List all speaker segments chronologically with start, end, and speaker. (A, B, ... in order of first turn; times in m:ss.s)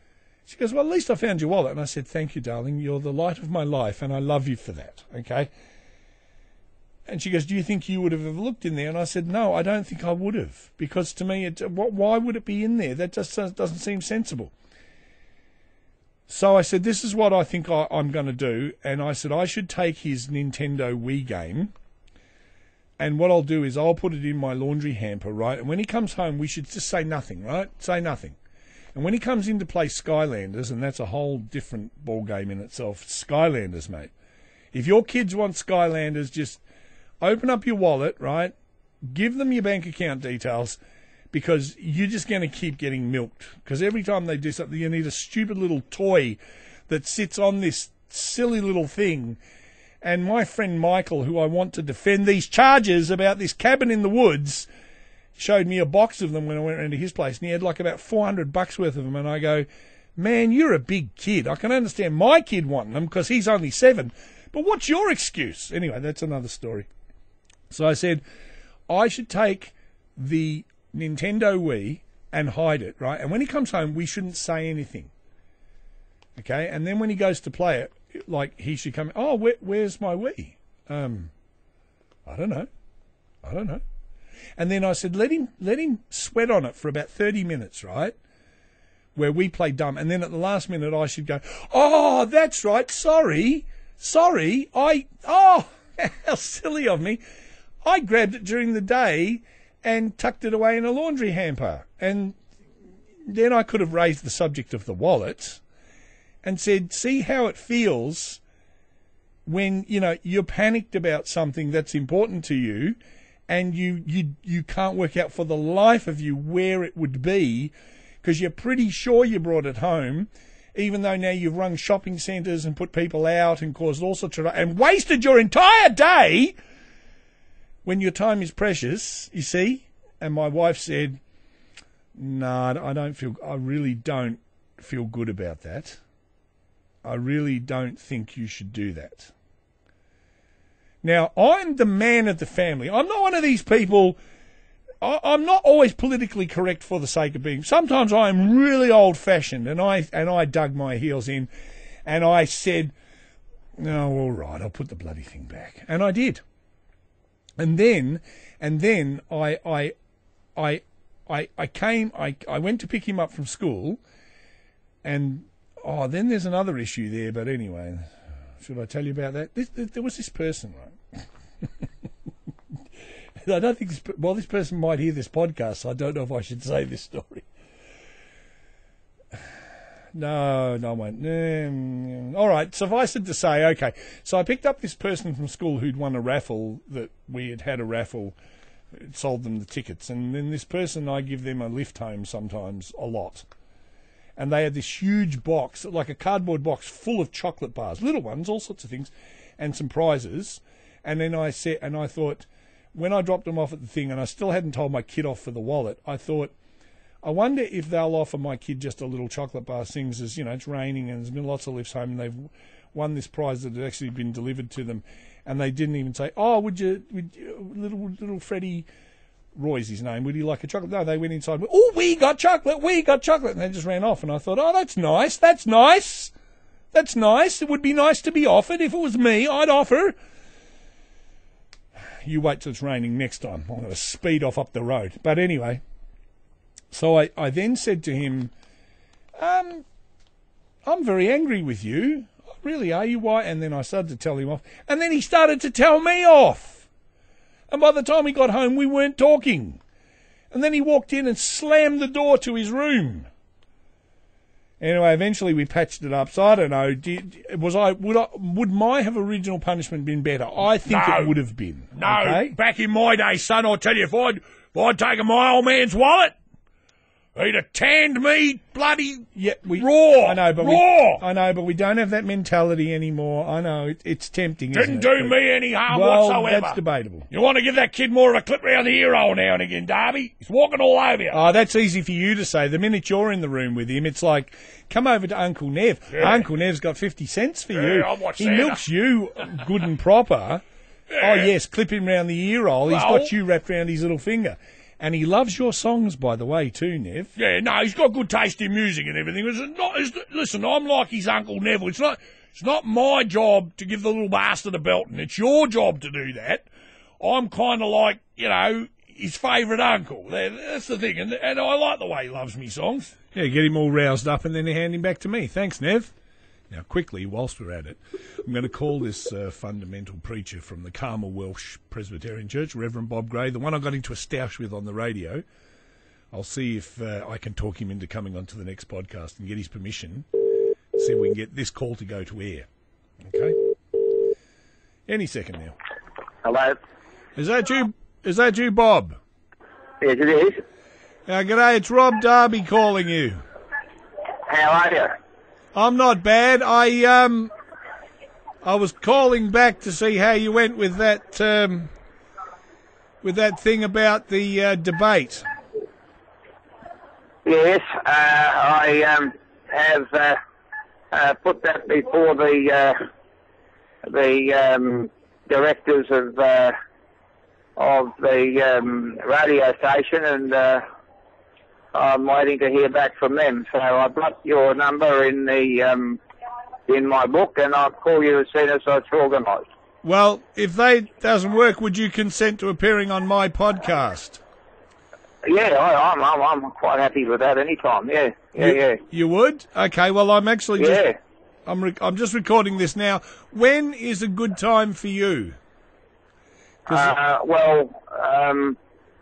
0:00.5-0:05.5 A
0:07.1-0:14.5 A
0:16.3-0:21.7 A
0:23.0-0:28.4 A
0:29.0-0:34.1 A
0:34.7-0:36.6 A
0:37.2-0:40.8 A
0:41.3-0:49.4 A
0:50.0-0:54.7 A
0:55.4-1:06.9 A
1:07.7-1:08.2 A
1:08.9-1:15.1 A
1:16.4-1:21.3 A
1:22.3-1:22.7 A
1:23.4-1:23.8 A
1:24.6-1:28.2 A
1:29.2-1:37.2 A
1:37.8-1:42.4 A
1:43.3-1:45.6 A
1:46.4-1:48.4 A
1:49.5-1:53.0 A
1:53.5-1:57.7 A
1:58.2-2:06.6 A
2:07.8-2:11.2 A
2:12.2-2:16.0 A
2:17.0-2:19.3 A
2:21.0-2:24.2 A
2:25.0-2:31.5 A
2:32.1-2:32.9 A
2:33.8-2:36.4 A
2:37.6-2:39.9 A
2:40.6-2:44.0 A
2:45.0-2:48.1 A
2:48.6-2:51.6 A
2:53.4-2:57.5 A
3:00.1-3:08.4 A
3:08.9-3:13.5 A
3:14.4-3:26.5 A
3:27.2-3:38.9 A
3:39.6-3:46.3 A
3:46.9-3:50.2 A
3:52.2-3:55.8 A
3:56.9-3:58.5 A
3:59.4-3:59.8 A
4:00.8-4:06.9 A
4:07.7-4:09.8 A
4:10.5-4:13.3 A
4:14.8-4:22.6 A
4:20.8-4:21.4 B
4:21.9-4:26.4 B
4:27.4-4:31.2 B
4:29.4-4:35.4 A
4:34.7-4:36.8 B
4:35.9-4:37.3 A
4:37.3-4:41.4 B
4:41.3-4:50.6 A
4:46.1-4:46.4 B
4:47.7-4:48.8 B
4:51.1-4:51.5 B
4:51.2-4:57.3 A
4:52.9-4:53.3 B
4:57.4-5:06.7 B
5:07.2-5:13.2 B
5:13.3-5:16.1 A
5:16.7-5:25.4 A
5:26.3-5:30.3 A
5:31.0-5:32.7 A
5:33.3-5:33.6 A
5:35.1-5:35.8 A
5:36.4-5:36.8 C
5:37.4-5:39.2 A
5:40.0-5:40.6 C
5:41.3-5:43.4 A
5:44.5-5:45.2 C
5:45.8-5:47.5 A
5:48.6-5:51.9 A
5:53.2-5:55.5 A
5:57.4-6:00.4 C
6:01.1-6:03.0 C
6:04.0-6:06.8 C
6:07.8-6:10.8 C
6:11.9-6:16.2 C
6:16.9-6:19.7 C
6:20.0-6:24.4 A
6:25.4-6:29.0 C
6:28.6-6:31.1 A
6:30.8-6:31.2 C
6:31.7-6:35.6 A
6:36.9-6:38.8 C